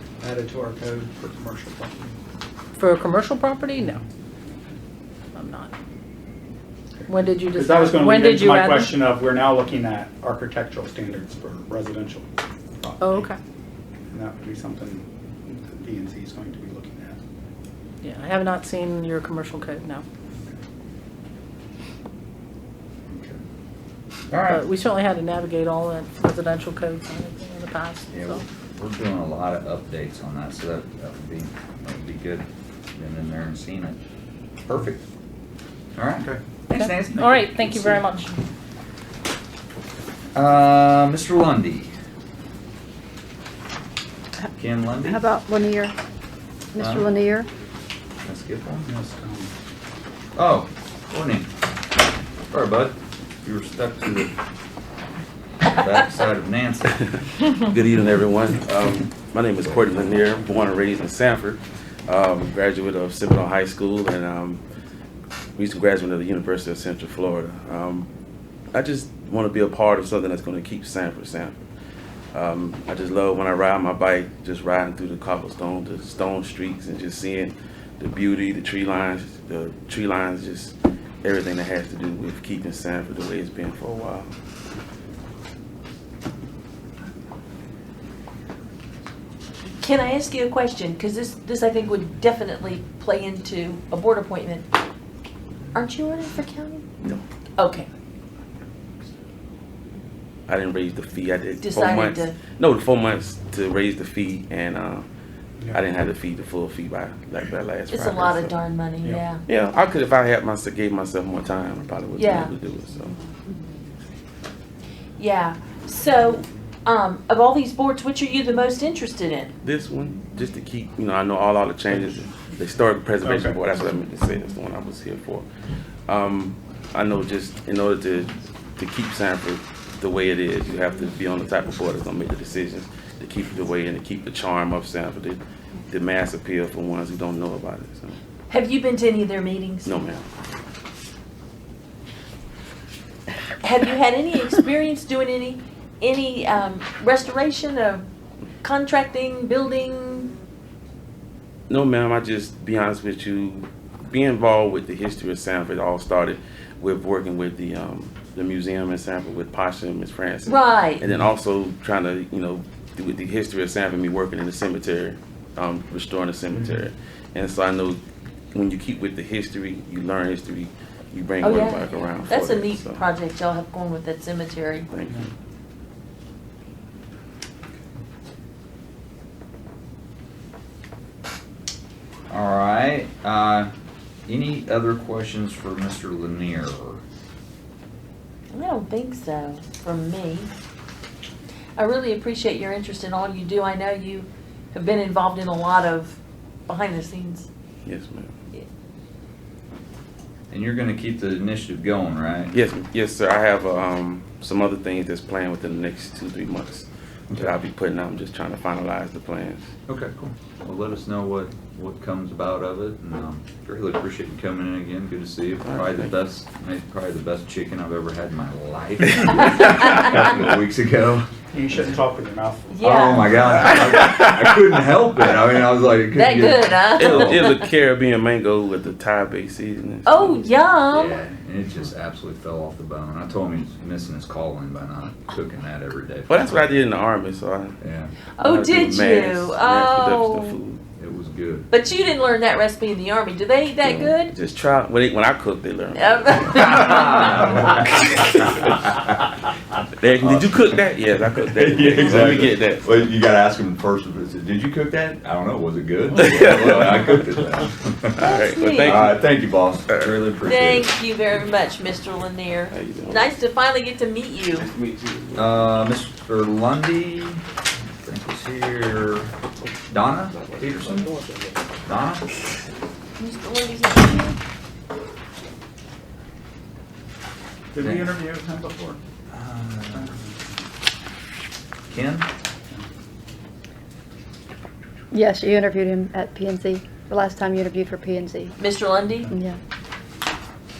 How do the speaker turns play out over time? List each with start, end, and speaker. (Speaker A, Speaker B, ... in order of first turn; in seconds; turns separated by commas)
Speaker A: 0.2-2.1, Speaker B: 2.8-4.0, Speaker B: 5.3-5.7, Speaker B: 7.1-9.1, Speaker A: 7.5-12.2, Speaker A: 12.8-13.2, Speaker B: 13.0-13.4, Speaker A: 14.1-17.2, Speaker B: 18.0-20.0, Speaker C: 23.1-23.4, Speaker C: 24.3-24.6, Speaker B: 24.4-28.4, Speaker C: 28.1-34.0, Speaker C: 34.6-35.0, Speaker C: 35.9-38.3, Speaker B: 36.7-38.4, Speaker C: 40.3-41.9, Speaker C: 44.6-45.2, Speaker D: 45.0-45.9, Speaker D: 46.7-47.5, Speaker C: 46.8-47.0, Speaker C: 48.2-48.9, Speaker A: 48.9-49.5, Speaker C: 50.4-51.5, Speaker C: 52.5-54.3, Speaker C: 55.7-57.1, Speaker E: 57.6-64.6, Speaker E: 65.6-68.1, Speaker E: 68.7-71.5, Speaker E: 72.3-84.3, Speaker F: 89.8-94.7, Speaker F: 95.7-96.8, Speaker F: 97.6-97.9, Speaker E: 100.5-105.0, Speaker F: 101.6-102.4, Speaker E: 105.7-108.6, Speaker F: 107.9-109.4, Speaker E: 109.5-113.2, Speaker F: 112.2-112.5, Speaker F: 115.2-119.5, Speaker E: 119.6-125.5, Speaker A: 123.2-123.6, Speaker E: 126.1-138.2, Speaker F: 138.5-139.9, Speaker E: 139.8-140.2, Speaker F: 143.6-148.0, Speaker F: 148.6-150.3, Speaker E: 151.7-168.0, Speaker F: 160.4-161.0, Speaker E: 168.5-173.0, Speaker F: 171.4-174.9, Speaker E: 174.9-175.2, Speaker C: 182.3-183.7, Speaker C: 184.3-187.0, Speaker F: 188.5-190.5, Speaker F: 191.8-197.5, Speaker E: 197.8-198.3, Speaker C: 200.5-202.5, Speaker E: 202.5-209.7, Speaker C: 209.9-221.3, Speaker E: 215.7-216.1, Speaker F: 219.6-220.1, Speaker A: 221.5-223.8, Speaker F: 222.7-223.3, Speaker C: 222.8-227.5, Speaker F: 226.1-227.6, Speaker E: 227.0-230.5, Speaker F: 230.0-231.2, Speaker C: 230.9-236.8, Speaker E: 236.3-237.8, Speaker C: 237.8-238.8, Speaker F: 238.4-240.6, Speaker E: 238.4-240.8, Speaker C: 241.0-241.7, Speaker F: 241.7-244.3, Speaker E: 243.8-248.8, Speaker F: 245.9-247.8, Speaker C: 246.6-250.8, Speaker E: 250.0-253.0, Speaker C: 251.4-258.2, Speaker E: 256.2-257.4, Speaker E: 258.1-259.1, Speaker F: 258.2-259.1, Speaker C: 258.8-260.9, Speaker F: 260.4-264.7, Speaker E: 262.7-263.3, Speaker E: 264.5-265.8, Speaker C: 265.3-267.4, Speaker C: 268.0-269.3, Speaker C: 269.9-271.1, Speaker E: 270.3-271.4, Speaker C: 271.8-272.2, Speaker F: 273.2-274.4, Speaker A: 277.7-279.0, Speaker C: 277.8-278.2, Speaker C: 279.3-280.1, Speaker A: 279.9-280.4, Speaker C: 281.9-282.3, Speaker D: 285.1-288.6, Speaker F: 288.6-289.3, Speaker D: 289.3-289.6